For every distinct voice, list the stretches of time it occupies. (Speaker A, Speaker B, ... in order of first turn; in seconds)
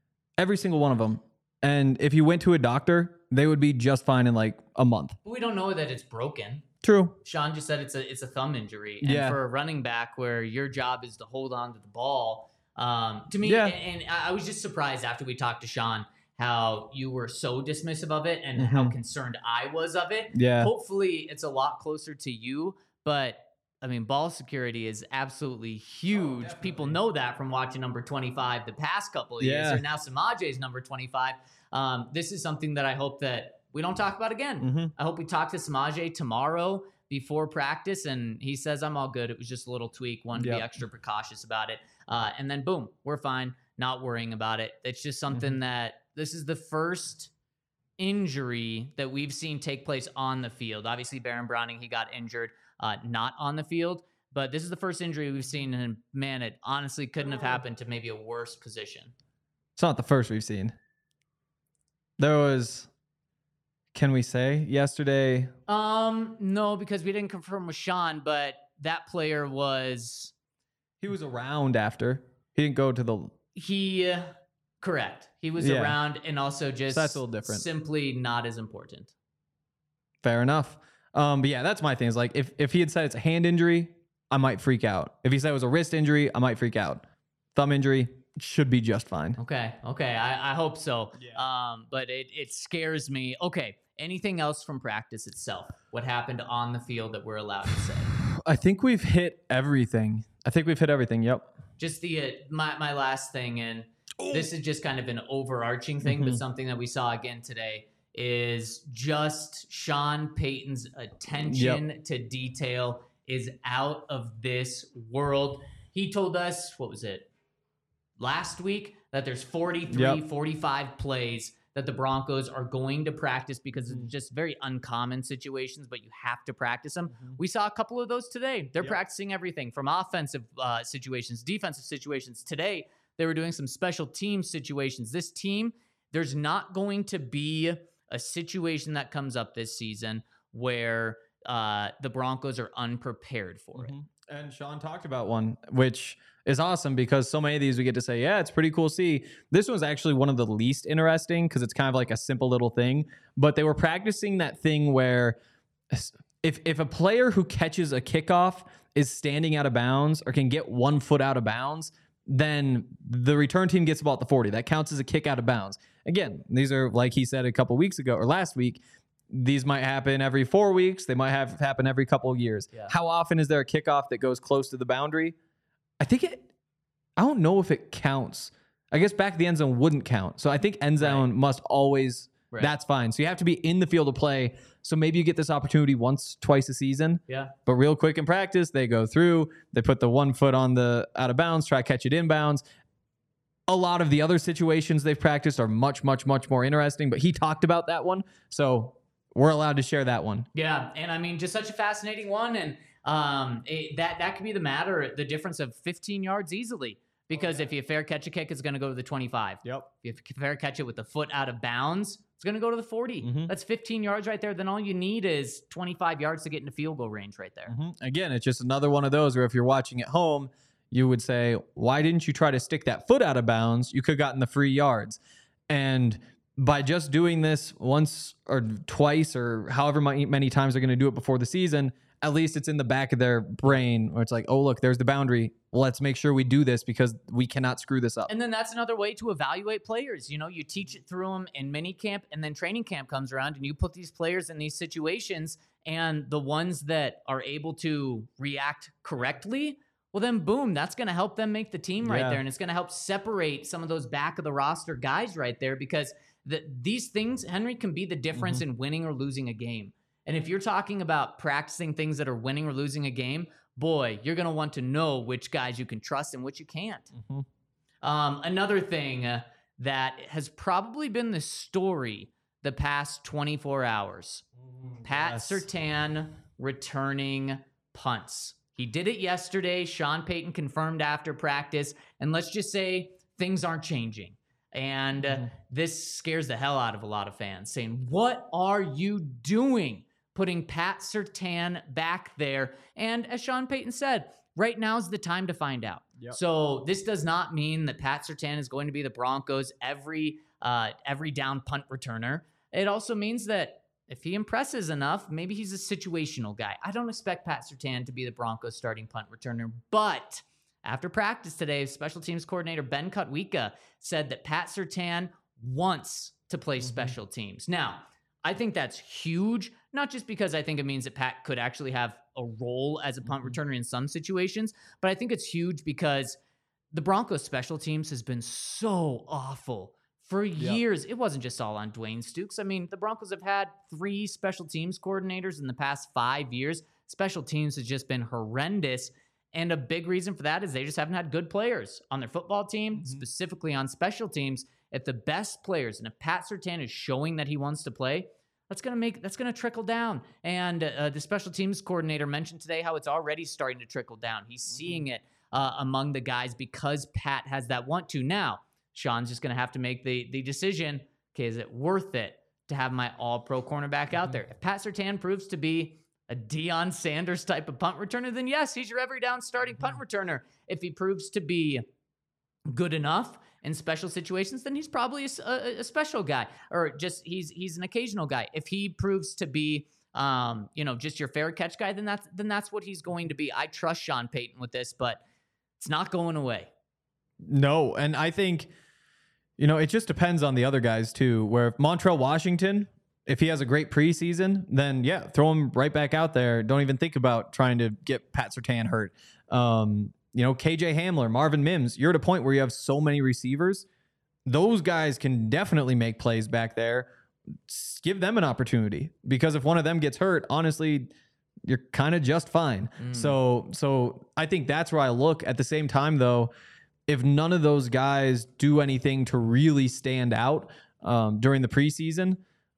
Speaker A: 0.4-5.2, 6.8-7.2, 9.0-9.4, 13.4-13.7, 18.6-18.9, 20.3-20.7, 26.4-26.9, 29.4-29.8, 34.6-34.9, 40.4-40.7, 45.3-45.6, 59.8-60.7, 62.2-62.9, 63.9-65.5, 71.0-73.3, 75.6-76.0, 76.9-77.6, 80.2-89.4, 98.2-101.5, 106.0-106.4, 111.4-111.8, 119.9-120.2, 143.7-155.3, 155.9-175.3, 176.0-176.5, 177.2-192.6, 193.7-200.5, 207.3-207.7, 213.2-213.5, 217.7-238.3, 252.0-252.4, 258.3-258.6, 267.1-267.4, 274.7-275.6, 285.2-285.5, 316.8-317.1, 343.0-343.2, 387.4-388.7, 389.6-403.9, 404.4-407.1, 407.7-411.1, 411.6-416.5, 417.1-422.4
Speaker B: 5.2-6.7, 7.2-47.3, 48.0-59.1, 65.7-70.3, 73.5-79.1, 89.4-98.2, 101.8-117.3, 118.2-143.9, 181.0-181.2, 187.3-187.5, 200.5-217.7, 238.3-267.1, 268.0-274.4, 275.0-326.4, 326.9-371.9, 372.7-385.2, 385.8-386.7, 413.0-413.4